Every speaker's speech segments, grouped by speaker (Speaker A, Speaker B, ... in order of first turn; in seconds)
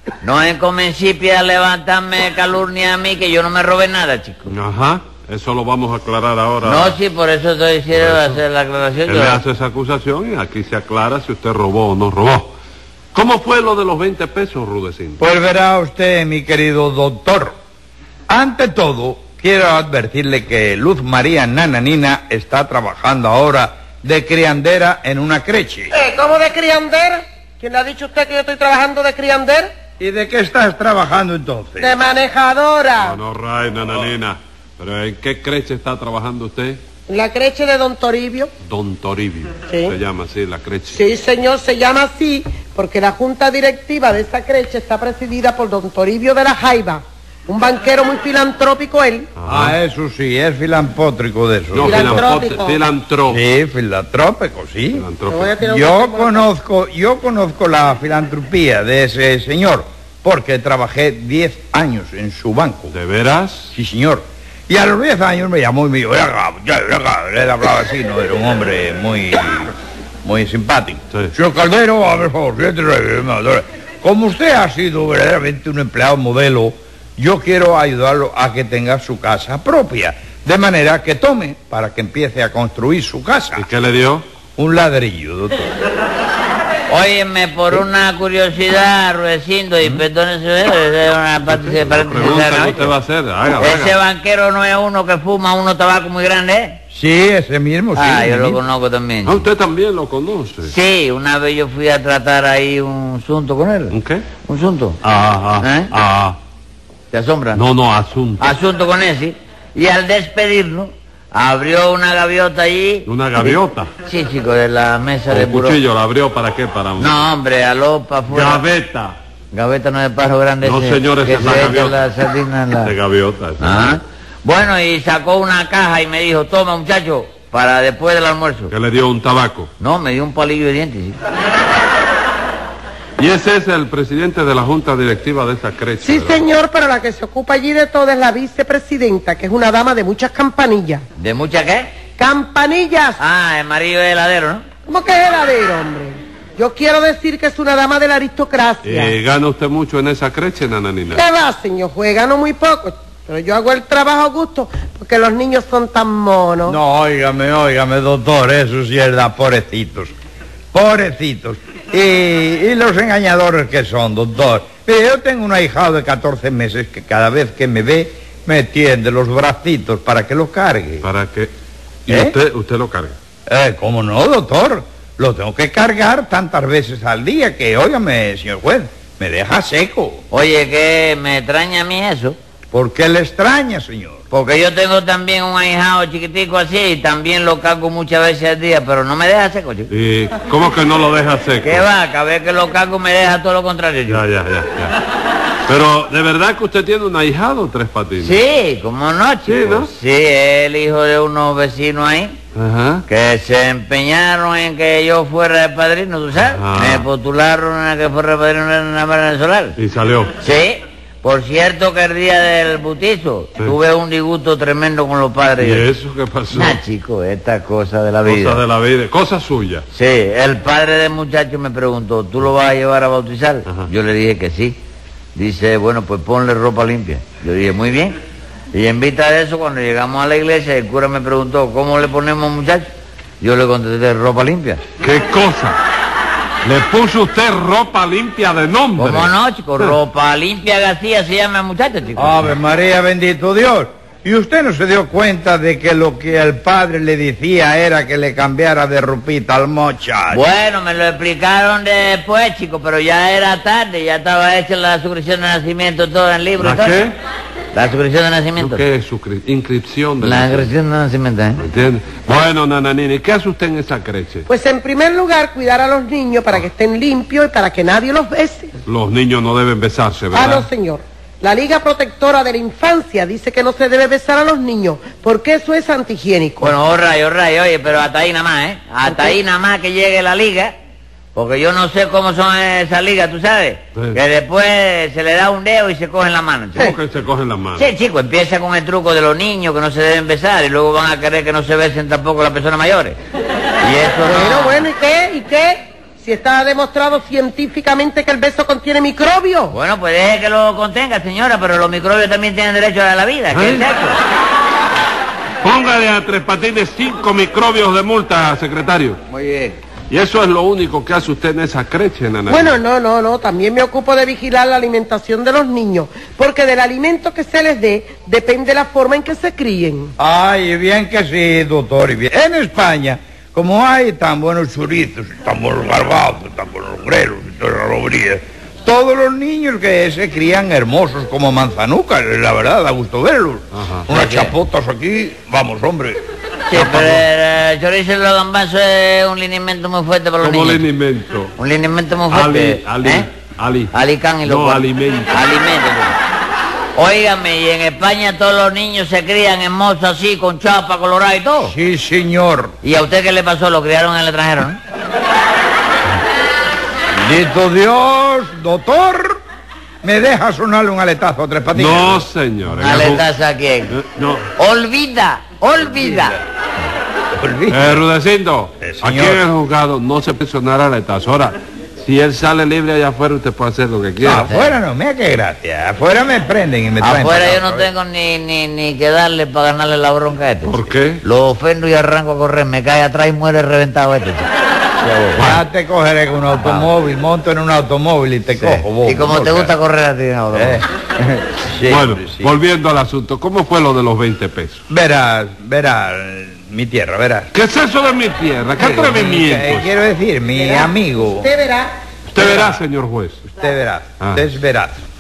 Speaker A: 0.2-4.5, 6.6-9.4, 86.9-92.9, 93.6-96.8, 97.9-99.5, 100.6-103.9, 104.5-105.0, 105.6-105.9, 107.1-107.6, 108.4-115.8, 117.0-118.6, 119.5-122.9, 123.6-128.7, 129.8-131.2, 141.2-141.9, 143.2-144.6, 180.3-182.4, 184.3-189.9, 191.6-194.2, 198.2-202.4, 203.1-209.8, 210.4-215.8, 216.5-218.6, 219.9-224.8, 225.3-228.2, 228.7-232.9, 233.4-234.8, 239.0-242.4, 250.3-257.0, 257.7-258.8, 260.2-261.6, 276.6-280.7, 281.3-286.9, 287.8-293.2, 293.8-294.8, 299.7-304.2, 309.4-309.7, 334.1-334.5, 336.7-340.8, 341.6-343.3, 343.9-346.1, 346.9-351.7, 352.8-354.8, 362.8-364.0, 364.6-366.4, 374.5-374.7, 377.0-384.5, 386.6-386.9, 388.6-391.4
Speaker B: 4.5-7.0, 7.9-8.4, 9.1-12.5, 13.1-15.2, 33.0-36.8, 38.6-41.0, 49.4-49.8, 51.7-53.4, 54.9-55.5, 62.9-63.7, 83.5-84.2, 91.5-93.9, 99.2-100.7, 103.9-104.2, 105.0-106.4, 107.5-108.5, 113.0-113.9, 115.3-117.2, 118.3-119.2, 120.6-122.0, 122.8-124.0, 128.7-129.7, 133.2-136.4, 148.8-151.2, 171.0-171.5, 172.1-173.2, 189.9-191.8, 194.1-194.9, 195.7-198.3, 199.4-199.9, 202.5-203.0, 206.4-207.1, 209.8-210.3, 215.6-216.8, 218.2-219.8, 235.0-235.8, 236.6-239.9, 256.6-257.1, 258.6-260.7, 261.6-264.5, 268.9-270.7, 286.7-287.9, 303.5-303.9, 305.6-309.2, 310.1-312.8, 333.7-334.1, 336.7-337.1, 340.4-341.5, 342.3-343.9, 344.4-345.4, 361.7-363.2, 363.9-364.5, 367.7-374.5, 380.6-381.2, 385.3-385.6, 391.9-394.8, 397.5-399.9, 402.3-403.4, 404.2-404.4
Speaker C: 15.2-17.5, 18.3-25.9, 30.0-31.9, 49.5-52.3, 53.3-55.0, 55.6-62.9, 63.7-69.7, 70.2-83.6, 84.6-85.7, 96.9-98.6, 156.7-160.1, 160.7-171.0, 172.1-172.3, 173.5-180.2, 182.7-184.2, 242.2-250.4, 320.2-336.2, 336.9-337.2, 351.6-352.7, 357.1-359.4, 360.0-362.2, 367.4-368.0, 368.8-369.4, 374.2-377.9, 385.0-389.7, 390.5-390.8, 391.6-392.5, 394.9-397.5, 398.8-401.5, 402.4-402.8, 403.5-405.0
Speaker D: 25.9-29.7, 31.8-33.2, 37.1-38.5, 39.7-39.9, 40.9-49.3, 51.8-52.8, 55.3-56.5, 136.0-141.0, 142.2-143.2, 144.9-149.1, 151.1-156.8, 264.5-268.7, 270.3-276.7, 279.0-279.4, 294.2-299.7, 312.5-320.1, 400.6-401.9